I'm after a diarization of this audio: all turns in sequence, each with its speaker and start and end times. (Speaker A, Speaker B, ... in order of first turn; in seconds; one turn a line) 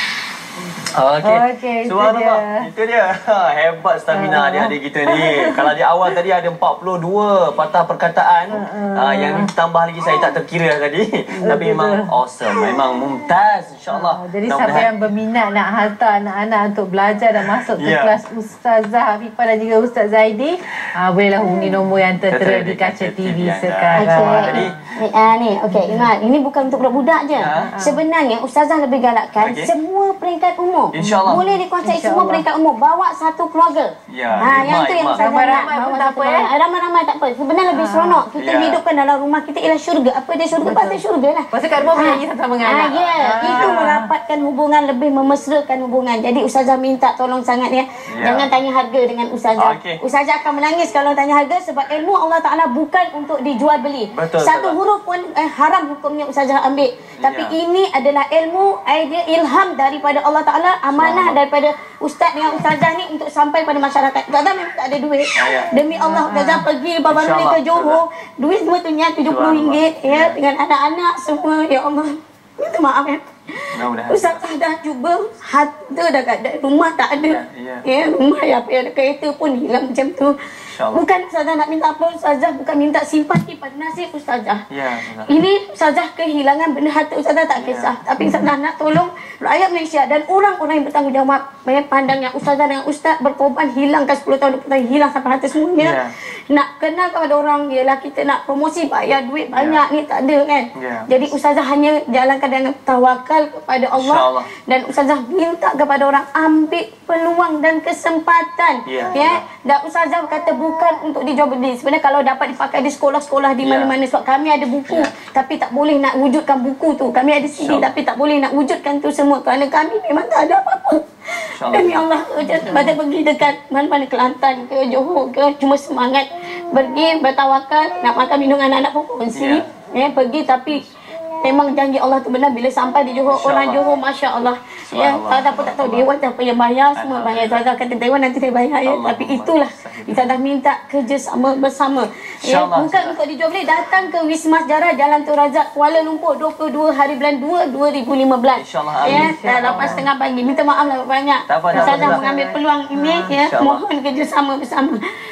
Speaker A: 0.8-14.9
Speaker B: 1.2-2.7
Speaker B: 4.1-5.7
Speaker B: 8.5-9.5
Speaker B: 11.4-12.1
Speaker B: 13.9-24.8
Speaker A: 17.6-18.2
Speaker A: 22.3-24.8
Speaker C: 23.9-80.4
Speaker B: 25.7-26.1
Speaker A: 27.4-27.7
Speaker B: 27.5-28.0
Speaker A: 29.4-29.7
Speaker A: 30.9-31.4
Speaker B: 31.0-32.5
Speaker A: 34.1-35.7
Speaker B: 34.5-36.5
Speaker B: 37.7-38.3
Speaker A: 38.4-38.8
Speaker B: 40.6-41.0
Speaker B: 41.5-44.1
Speaker A: 43.4-43.7
Speaker A: 48.1-48.5
Speaker A: 49.6-50.0
Speaker A: 54.1-54.8
Speaker A: 57.2-57.6
Speaker A: 60.9-61.4
Speaker A: 65.4-65.7
Speaker B: 65.9-66.7
Speaker A: 67.1-68.0
Speaker A: 69.3-70.4
Speaker A: 73.7-74.4
Speaker A: 77.3-77.8
Speaker A: 80.7-81.0
Speaker C: 80.9-84.6
Speaker A: 84.7-85.3
Speaker C: 85.3-155.0
Speaker A: 87.6-87.9
Speaker A: 95.8-96.1
Speaker A: 99.5-99.8
Speaker A: 100.8-101.1
Speaker A: 103.9-104.5
Speaker A: 108.9-109.4
Speaker A: 113.6-114.0
Speaker A: 117.5-117.9
Speaker A: 121.5-123.0
Speaker A: 129.3-129.6
Speaker A: 133.3-133.9
Speaker A: 134.9-136.1
Speaker A: 136.9-137.7
Speaker A: 138.8-140.4
Speaker A: 142.4-143.2
Speaker A: 148.6-150.0
Speaker B: 149.0-150.1
Speaker A: 151.5-152.3
Speaker B: 151.7-153.4
Speaker A: 153.4-153.8